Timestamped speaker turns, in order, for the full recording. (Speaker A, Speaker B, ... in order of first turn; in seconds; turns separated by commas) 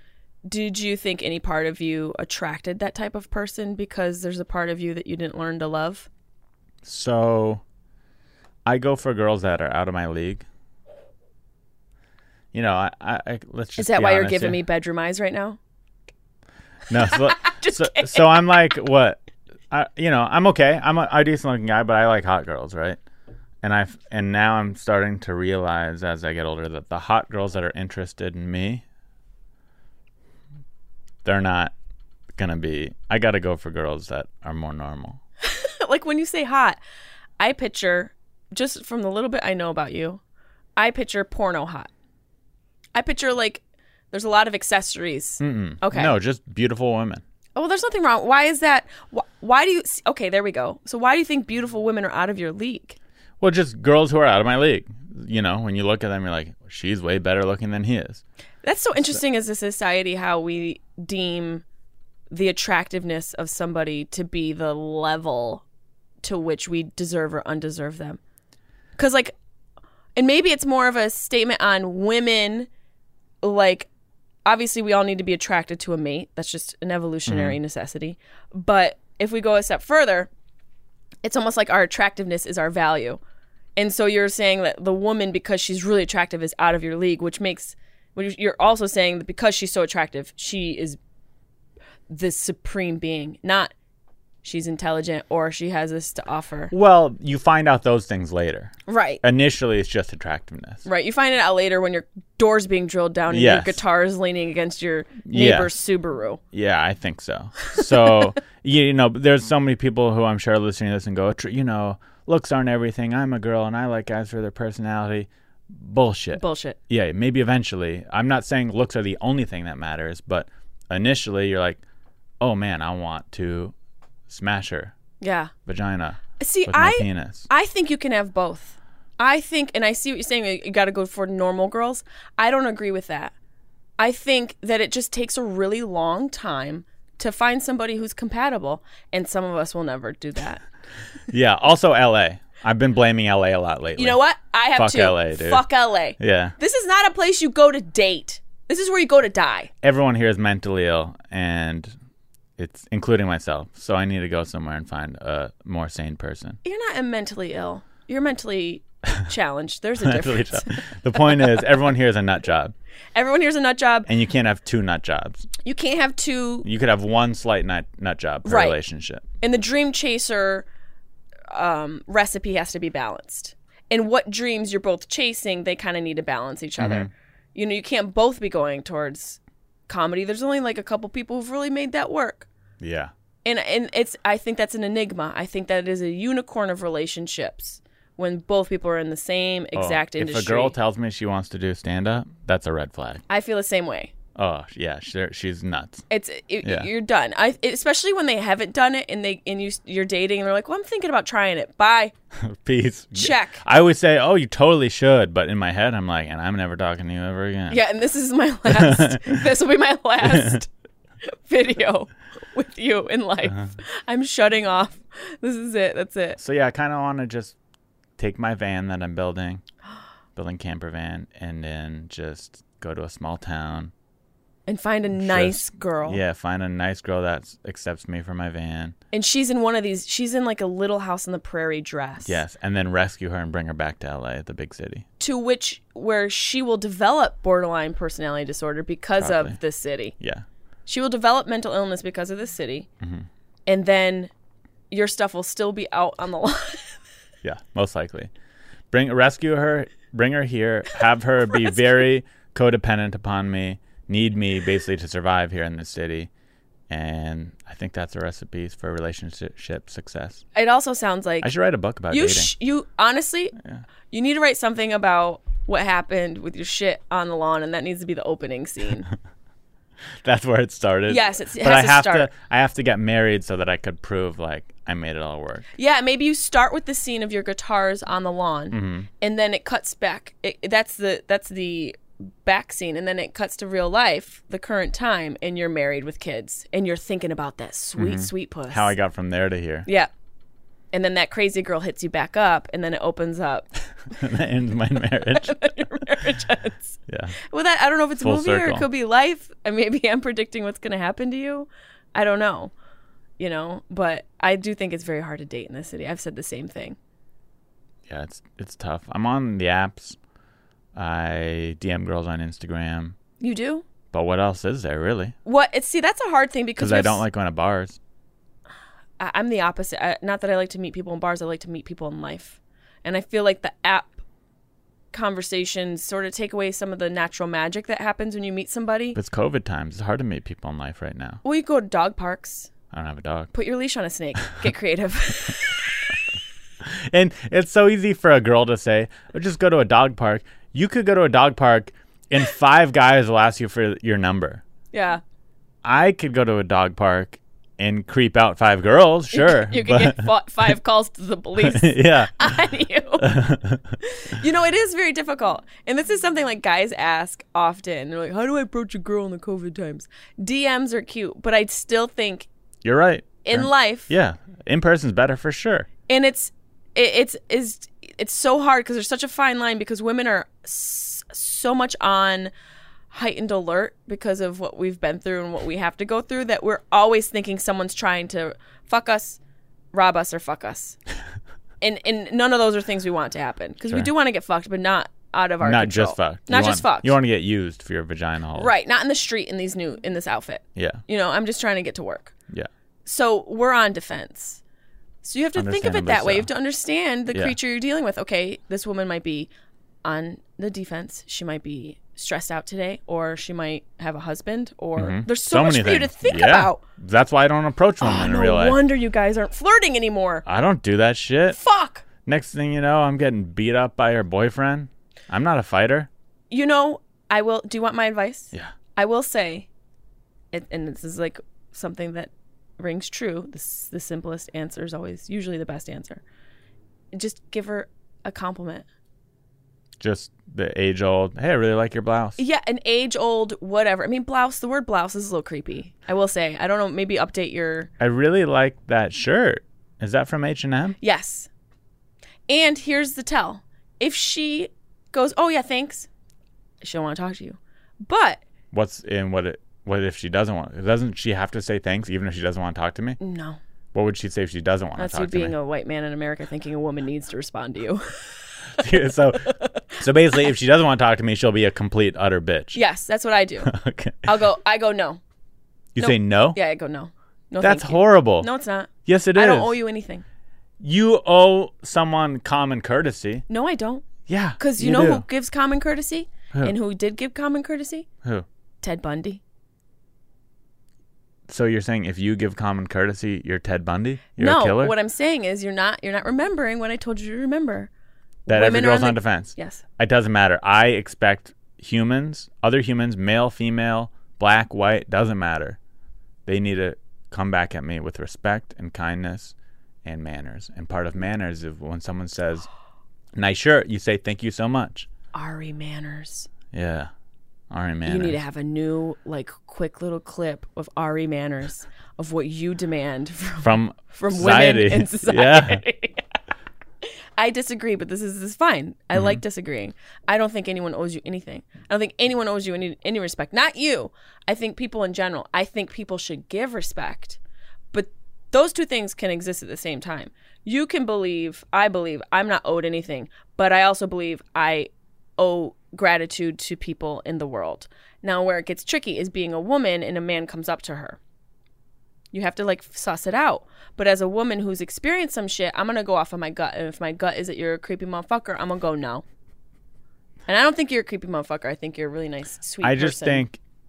Speaker A: 0.5-6.1, Speaker B: 6.8-7.6, Speaker B: 8.7-10.4, Speaker B: 12.5-14.6, Speaker A: 13.8-15.6, Speaker B: 16.9-23.0, Speaker A: 16.9-18.4, Speaker B: 23.6-28.8, Speaker B: 31.2-31.7, Speaker B: 32.3-35.2, Speaker A: 35.4-36.8, Speaker A: 37.4-40.2, Speaker A: 40.8-41.9, Speaker A: 42.9-46.1, Speaker B: 45.4-47.2, Speaker A: 47.5-53.0, Speaker B: 53.4-58.2, Speaker A: 58.6-61.6, Speaker B: 58.9-59.2, Speaker A: 62.3-65.6, Speaker A: 66.2-68.2, Speaker A: 69.0-69.3, Speaker A: 70.2-72.7, Speaker A: 73.4-73.9, Speaker A: 74.4-80.3, Speaker B: 77.3-77.6, Speaker A: 81.2-83.2, Speaker A: 83.8-91.0, Speaker A: 92.1-93.7, Speaker A: 94.4-96.7, Speaker B: 96.7-100.8, Speaker A: 98.8-99.2, Speaker A: 100.8-106.4, Speaker B: 103.3-103.8, Speaker B: 105.2-105.7, Speaker B: 106.5-121.8, Speaker A: 107.7-108.2, Speaker A: 116.3-116.8, Speaker B: 122.4-123.7, Speaker B: 124.3-124.9, Speaker A: 125.2-125.5, Speaker B: 125.7-127.5, Speaker A: 126.4-133.3, Speaker A: 134.0-140.6, Speaker B: 141.3-144.2, Speaker A: 143.9-149.7, Speaker B: 144.7-145.7, Speaker B: 146.2-146.5, Speaker B: 149.8-151.9, Speaker B: 152.6-156.6, Speaker A: 156.6-161.5, Speaker B: 160.0-162.7, Speaker A: 163.1-164.1, Speaker B: 164.1-165.5, Speaker A: 165.6-166.7, Speaker B: 166.6-169.2, Speaker A: 168.4-168.8, Speaker A: 169.4-170.7, Speaker A: 171.5-182.5, Speaker B: 176.8-177.1, Speaker B: 182.8-183.1, Speaker A: 183.4-190.7, Speaker B: 189.7-193.2, Speaker A: 193.3-194.1, Speaker B: 194.3-196.0, Speaker A: 196.1-202.1, Speaker B: 196.6-196.9, Speaker B: 202.3-207.8, Speaker A: 203.1-203.6, Speaker A: 207.7-210.7, Speaker B: 208.7-209.5, Speaker B: 210.2-210.6, Speaker A: 211.2-216.4, Speaker B: 216.4-217.6, Speaker B: 218.2-219.6, Speaker B: 220.3-223.9, Speaker A: 224.7-226.2, Speaker B: 225.2-228.9, Speaker A: 229.1-232.4, Speaker B: 232.2-235.1, Speaker A: 235.2-240.2, Speaker B: 239.2-239.6, Speaker B: 240.2-240.4, Speaker A: 240.8-242.9, Speaker B: 243.0-243.3, Speaker A: 243.7-244.3, Speaker A: 244.9-247.0, Speaker B: 247.4-248.3, Speaker B: 248.9-256.3, Speaker B: 256.9-260.4, Speaker A: 260.5-261.5, Speaker B: 261.4-262.5, Speaker A: 262.1-263.5, Speaker B: 263.6-263.8, Speaker A: 264.1-269.1, Speaker B: 270.2-275.7, Speaker A: 271.1-272.3, Speaker A: 275.8-288.9, Speaker B: 278.7-279.1, Speaker B: 288.0-289.9, Speaker A: 289.9-290.1, Speaker A: 290.9-293.7, Speaker B: 294.1-295.8, Speaker A: 295.2-302.7, Speaker B: 297.1-297.4, Speaker B: 298.2-298.9, Speaker A: 303.4-307.0, Speaker B: 308.1-310.2, Speaker B: 310.9-313.1, Speaker A: 313.4-313.9, Speaker B: 314.1-315.4, Speaker A: 315.4-317.2, Speaker B: 316.8-318.0, Speaker A: 319.2-324.2, Speaker A: 325.1-329.2, Speaker B: 329.1-331.4, Speaker A: 331.4-332.7, Speaker B: 332.9-333.5, Speaker A: 333.5-336.3, Speaker B: 336.8-344.6, Speaker A: 344.9-345.2, Speaker B: 345.8-350.3, Speaker A: 349.3-353.4, Speaker B: 351.6-352.5, Speaker B: 353.2-354.0, Speaker A: 354.0-362.5, Speaker B: 362.8-365.9, Speaker A: 363.4-364.1, Speaker A: 366.1-372.5, Speaker A: 373.1-379.4, Speaker A: 379.9-381.0, Speaker A: 381.8-387.1, Speaker B: 385.6-388.7, Speaker A: 388.6-392.3, Speaker B: 390.8-391.0, Speaker A: 393.0-394.6, Speaker A: 395.2-399.5, Speaker B: 395.6-396.5, Speaker A: 400.0-406.8, Speaker B: 405.0-408.8, Speaker A: 408.0-410.4, Speaker B: 410.4-411.6, Speaker A: 411.5-412.0, Speaker B: 412.2-416.1, Speaker A: 416.5-419.7, Speaker A: 420.5-426.2, Speaker A: 427.1-428.9, Speaker B: 430.0-432.4, Speaker A: 432.4-437.9, Speaker B: 438.0-441.0, Speaker A: 441.0-441.5, Speaker A: 442.5-446.1, Speaker A: 446.8-448.4, Speaker B: 448.7-453.2, Speaker A: 453.2-453.6, Speaker B: 453.9-455.5, Speaker A: 455.0-458.3, Speaker B: 458.8-462.8, Speaker A: 459.5-459.8, Speaker A: 462.7-465.2, Speaker B: 463.6-464.3, Speaker B: 465.9-466.6, Speaker A: 466.0-470.2, Speaker B: 467.6-468.5, Speaker B: 469.0-469.8, Speaker B: 470.8-473.4, Speaker A: 473.5-478.1, Speaker B: 474.2-475.2, Speaker A: 478.8-479.4, Speaker B: 481.5-484.9, Speaker A: 484.4-487.9, Speaker A: 488.4-489.8, Speaker B: 488.5-495.8, Speaker B: 496.4-502.7, Speaker B: 503.4-505.1, Speaker A: 505.3-506.5, Speaker B: 506.7-507.1, Speaker B: 507.7-508.4, Speaker A: 508.0-516.3, Speaker B: 513.6-515.8, Speaker A: 517.0-527.4, Speaker B: 519.1-519.4, Speaker A: 527.9-541.2, Speaker A: 542.3-549.2, Speaker A: 550.5-553.4, Speaker B: 552.8-553.6